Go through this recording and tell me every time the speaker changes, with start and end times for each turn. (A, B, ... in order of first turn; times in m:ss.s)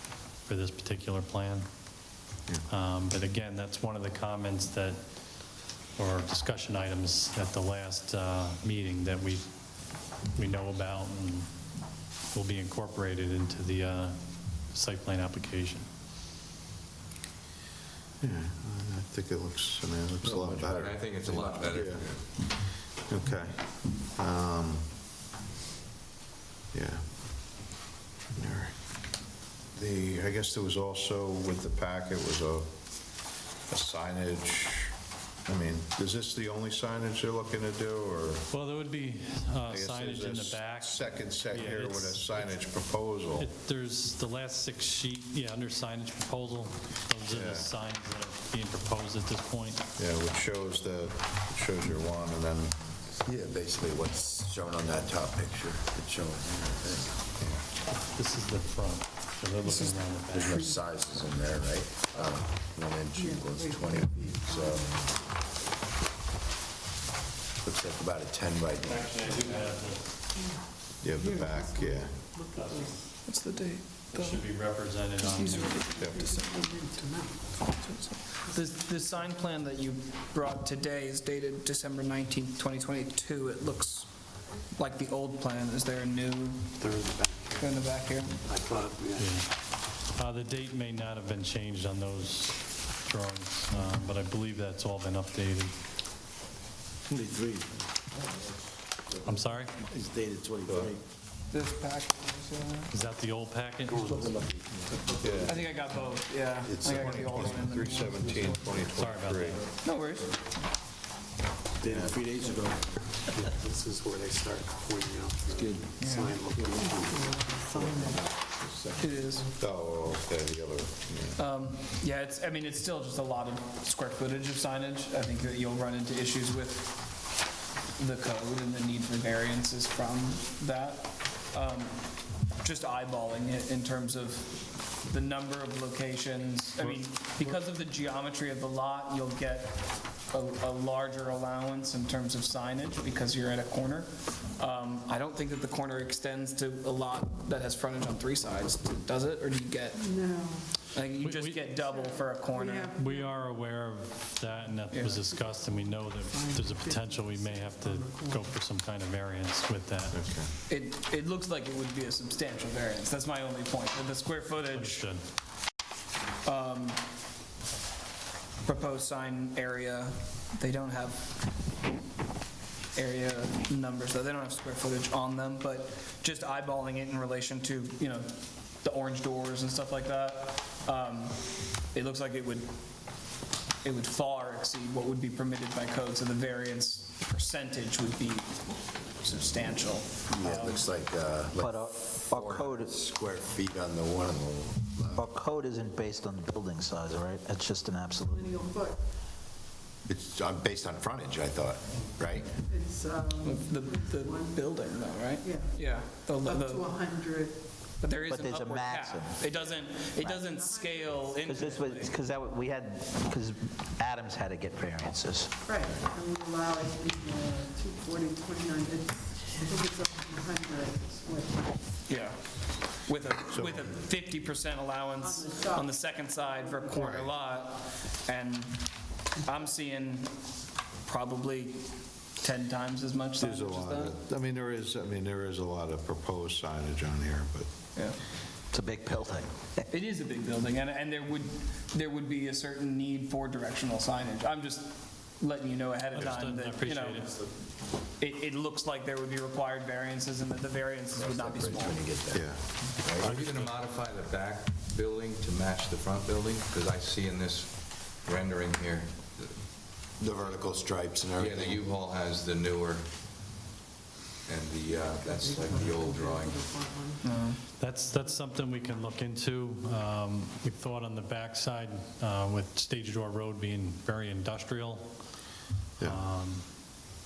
0:00.5-0:01.7 A
0:02.7-0:11.5 A
0:12.3-0:15.9 A
0:18.2-0:24.9 B
0:20.2-0:22.2 C
0:20.3-0:21.8 D
0:26.7-0:27.1 B
0:28.4-0:28.8 B
0:29.8-0:32.7 B
0:33.7-0:35.0 B
0:35.5-0:38.5 B
0:38.5-0:42.6 A
0:39.7-0:43.5 B
0:43.4-0:49.8 A
0:47.3-0:47.7 B
0:50.0-0:52.7 B
0:53.2-0:57.4 D
0:57.9-1:00.8 A
1:00.3-1:05.0 D
1:03.2-1:05.1 E
1:07.6-1:09.3 D
1:08.8-1:10.3 A
1:11.0-1:12.2 B
1:11.2-1:13.0 E
1:12.5-1:13.1 A
1:13.1-1:14.4 F
1:14.1-1:15.8 A
1:15.2-1:17.6 E
1:15.7-1:16.4 F
1:16.0-1:16.3 B
1:17.8-1:26.7 F
1:27.6-1:28.4 F
1:28.6-1:29.1 G
1:29.2-1:35.7 A
1:37.3-1:37.6 H
1:39.2-1:39.7 A
1:39.9-1:40.9 H
1:40.7-1:41.0 B
1:41.5-1:42.9 F
1:42.9-1:44.3 A
1:45.2-1:45.6 B
1:45.4-1:48.7 F
1:46.7-1:49.6 B
1:48.9-1:49.6 A
1:49.8-1:50.6 F
1:52.2-1:52.7 H
1:54.5-1:56.9 G
1:56.0-1:56.4 F
1:56.8-1:58.2 E
1:59.0-1:59.5 F
1:59.6-2:01.4 B
2:01.4-2:07.4 F
2:08.0-2:12.0 F
2:12.6-2:30.0 F
2:29.9-2:30.8 E
2:30.9-2:33.0 F
2:31.2-2:31.6 A
2:31.7-2:33.4 E
2:33.0-2:40.2 A
2:34.9-2:35.2 F
2:35.2-2:38.6 E
2:40.1-2:40.5 B
2:40.7-2:45.1 F
2:44.7-2:45.2 A
2:46.4-2:47.0 F
2:48.6-2:51.3 F
2:53.0-3:02.7 F
3:03.8-3:10.8 F
3:10.3-3:15.3 D
3:11.6-3:12.9 I
3:15.1-3:18.5 I
3:18.3-3:19.0 E
3:20.0-3:22.6 D
3:22.6-3:27.6 E
3:23.4-3:27.1 F
3:28.0-3:32.1 F
3:28.3-3:29.5 I
3:30.1-3:30.5 I
3:30.6-3:31.8 E
3:31.5-3:35.5 I
3:35.7-3:41.8 E
3:42.1-3:50.3 F
3:43.5-3:43.9 B
3:45.2-3:47.2 E
3:46.9-3:47.3 B
3:51.0-3:54.1 F
3:53.4-3:57.7 B
3:58.7-3:59.8 I
3:59.9-4:07.5 F
4:06.2-4:07.3 A
4:08.2-4:12.1 F
4:11.1-4:13.3 D
4:12.3-4:12.6 B
4:13.1-4:19.6 C
4:13.2-4:13.7 A
4:20.2-4:22.0 D
4:21.3-4:23.1 C
4:24.4-4:26.7 C
4:25.1-4:27.4 E
4:27.2-4:27.6 F
4:27.8-4:35.2 A
4:36.0-4:36.6 A